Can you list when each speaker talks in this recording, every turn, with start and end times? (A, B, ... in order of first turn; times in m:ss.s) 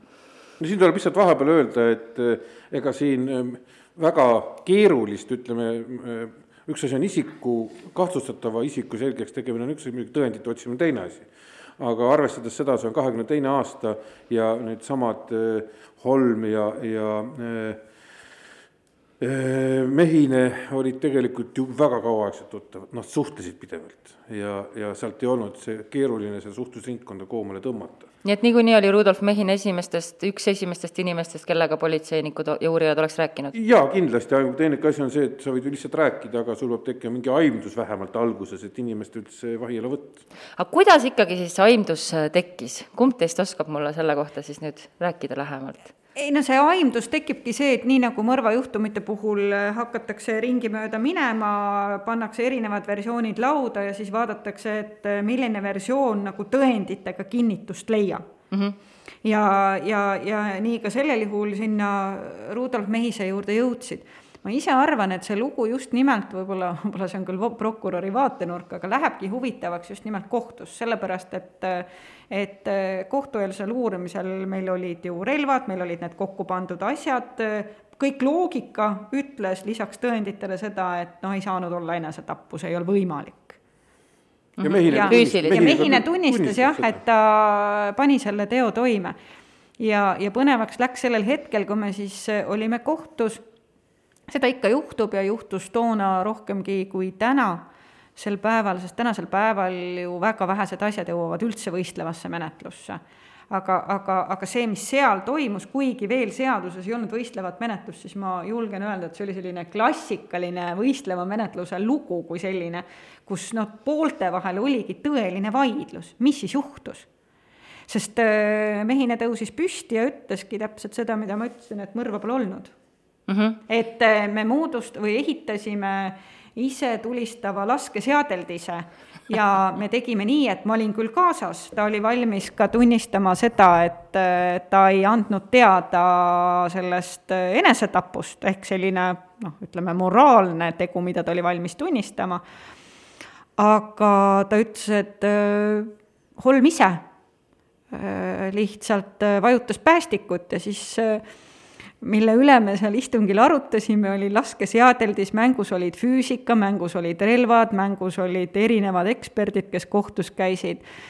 0:00.6-0:11.3 A
0:11.8-0:17.8 A
0:19.2-0:28.1 A
0:28.2-0:33.5 B
0:33.5-0:40.2 A
0:40.6-0:45.9 B
0:46.2-0:58.2 C
0:59.2-1:23.6 C
1:24.6-1:25.8 B
1:24.6-1:27.0 A
1:24.9-1:29.2 C
1:29.8-1:33.4 C
1:34.3-1:37.6 C
1:38.2-1:57.1 C
1:57.9-2:02.7 C
2:03.3-2:03.6 B
2:03.7-2:22.4 C
2:23.6-2:27.0 C
2:27.9-2:31.2 C
2:32.0-2:40.8 C